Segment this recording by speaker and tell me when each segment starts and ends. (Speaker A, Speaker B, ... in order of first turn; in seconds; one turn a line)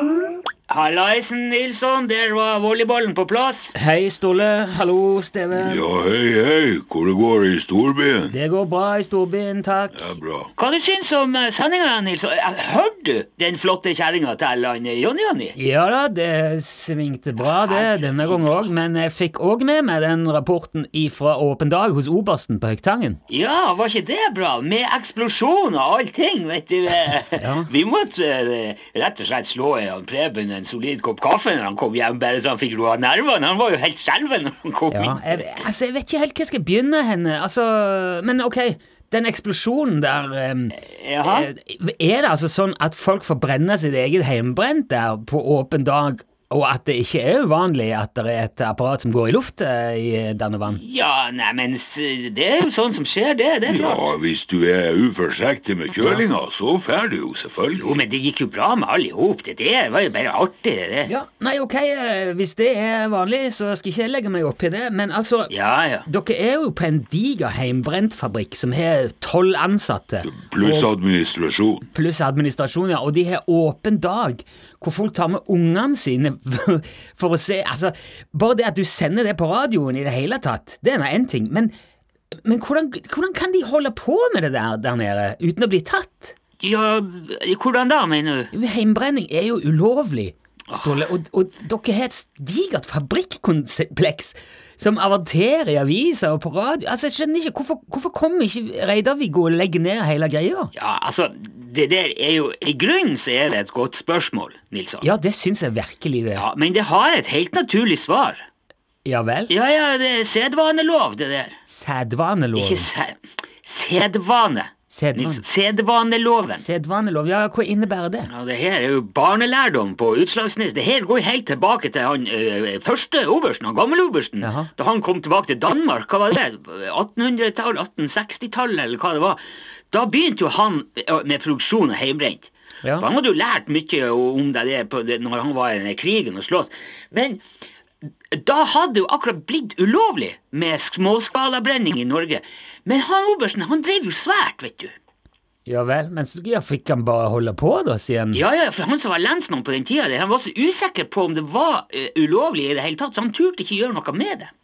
Speaker A: 0.7-3.7
Speaker B: 3.7-5.8
Speaker C: 5.5-8.3
Speaker B: 8.3-10.2
Speaker C: 9.9-10.5
Speaker A: 10.6-15.6
Speaker B: 15.6-23.2
Speaker A: 17.4-18.6
Speaker A: 23.3-35.6
Speaker B: 27.4-27.7
Speaker B: 34.9-50.8
Speaker A: 40.7-41.5
Speaker A: 50.7-54.0
Speaker C: 53.7-58.0
Speaker A: 57.7-61.1
Speaker B: 61.0-65.5
Speaker A: 65.5-66.1
Speaker B: 66.0-71.0
Speaker C: 70.3-71.8
Speaker B: 71.8-81.7
Speaker B: 82.4-86.4
Speaker A: 86.6-88.5
Speaker B: 88.5-100.7
Speaker A: 90.7-91.1
Speaker A: 100.7-105.1
Speaker B: 105.0-106.5
Speaker A: 106.3-108.4
Speaker B: 109.0-109.5
Speaker A: 109.5-111.6
Speaker B: 111.7-112.9
Speaker A: 112.5-116.7
Speaker B: 114.9-115.4
Speaker B: 116.5-118.3
Speaker A: 118.3-129.4
Speaker B: 124.4-124.7
Speaker A: 129.9-137.4
Speaker A: 138.3-144.9
Speaker B: 145.7-148.4
Speaker A: 148.3-154.5